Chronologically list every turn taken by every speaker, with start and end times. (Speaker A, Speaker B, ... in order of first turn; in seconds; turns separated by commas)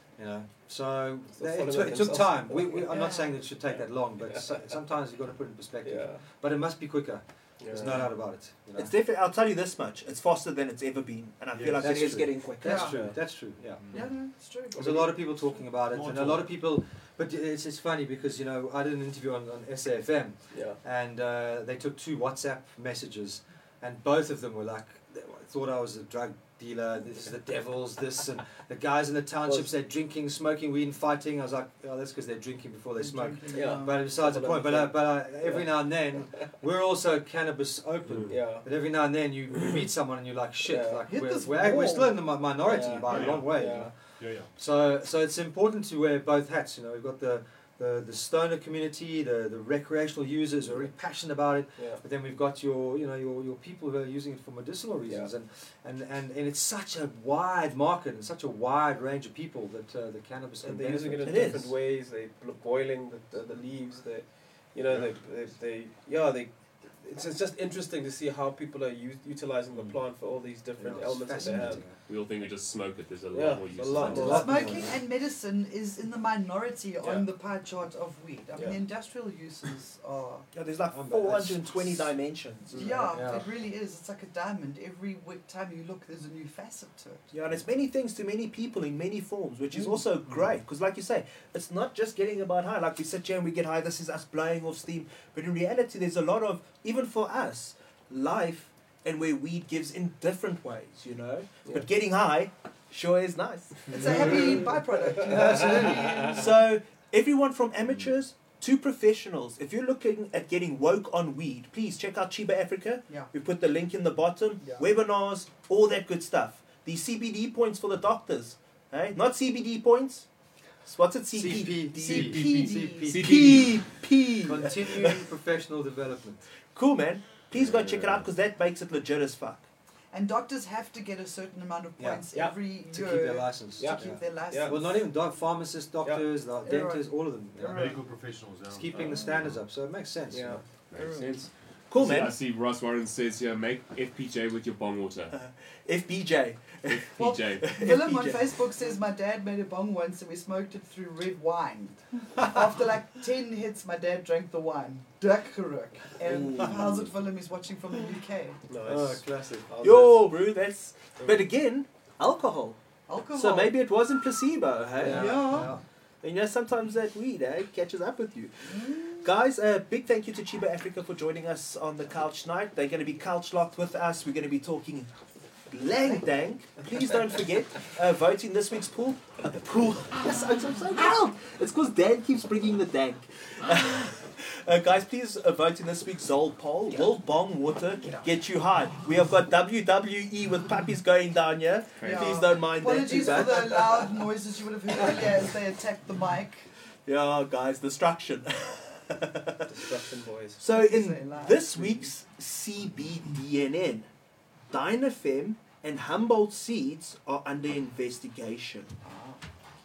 Speaker A: 0.2-8.9, Speaker B: 1.4-3.0, Speaker C: 2.9-3.4, Speaker B: 4.2-4.6, Speaker B: 5.8-6.2, Speaker B: 7.6-8.1, Speaker D: 8.8-13.1, Speaker E: 11.5-11.9, Speaker A: 11.8-14.1, Speaker C: 12.6-12.9, Speaker B: 12.9-13.1, Speaker E: 13.8-14.1, Speaker C: 13.9-14.8, Speaker B: 14.7-15.2, Speaker A: 14.8-43.9, Speaker E: 15.8-16.6, Speaker B: 20.5-20.8, Speaker B: 29.4-29.7, Speaker C: 33.0-34.0, Speaker B: 33.5-35.7, Speaker B: 38.3-38.7, Speaker B: 40.6-41.0, Speaker C: 41.1-42.2, Speaker B: 42.6-43.9, Speaker E: 43.0-44.5, Speaker A: 44.5-61.6, Speaker B: 60.6-71.9, Speaker D: 61.2-61.7, Speaker E: 64.9-65.1, Speaker A: 70.8-72.0, Speaker F: 72.0-74.6, Speaker B: 73.3-74.8, Speaker A: 74.0-75.0, Speaker C: 74.2-80.5, Speaker B: 77.0-77.3, Speaker B: 78.5-78.8, Speaker D: 80.5-82.9, Speaker A: 80.9-81.6, Speaker C: 82.8-87.2, Speaker A: 83.0-83.5, Speaker D: 87.3-104.6, Speaker C: 103.9-106.4, Speaker A: 105.2-106.3, Speaker D: 106.2-120.3, Speaker D: 120.9-122.5, Speaker A: 121.3-123.8, Speaker C: 122.0-123.2, Speaker F: 122.4-123.8, Speaker D: 123.2-125.2, Speaker A: 124.4-126.4, Speaker D: 126.7-129.7, Speaker F: 127.5-128.3, Speaker C: 130.1-135.0, Speaker A: 132.0-132.2, Speaker A: 132.8-137.9, Speaker B: 133.8-134.8, Speaker C: 136.7-137.9, Speaker E: 137.6-139.1, Speaker A: 138.7-140.6, Speaker C: 139.0-139.4, Speaker B: 140.3-140.6, Speaker F: 140.9-145.3, Speaker C: 140.9-141.4, Speaker D: 141.9-142.4, Speaker D: 145.3-148.5, Speaker F: 146.9-147.7, Speaker C: 147.2-158.6, Speaker B: 156.2-157.1, Speaker B: 158.7-159.2, Speaker A: 158.8-160.2, Speaker D: 159.8-162.8, Speaker C: 163.1-163.7, Speaker D: 163.3-165.5, Speaker B: 165.0-165.3, Speaker A: 165.0-165.8, Speaker C: 165.1-165.7, Speaker D: 166.2-175.1, Speaker C: 168.7-169.3, Speaker D: 175.7-194.2, Speaker F: 192.0-192.4, Speaker C: 192.0-196.7, Speaker D: 197.1-199.9, Speaker B: 199.7-200.6, Speaker D: 200.6-204.1, Speaker C: 200.7-202.1, Speaker D: 204.7-208.9, Speaker C: 209.0-209.4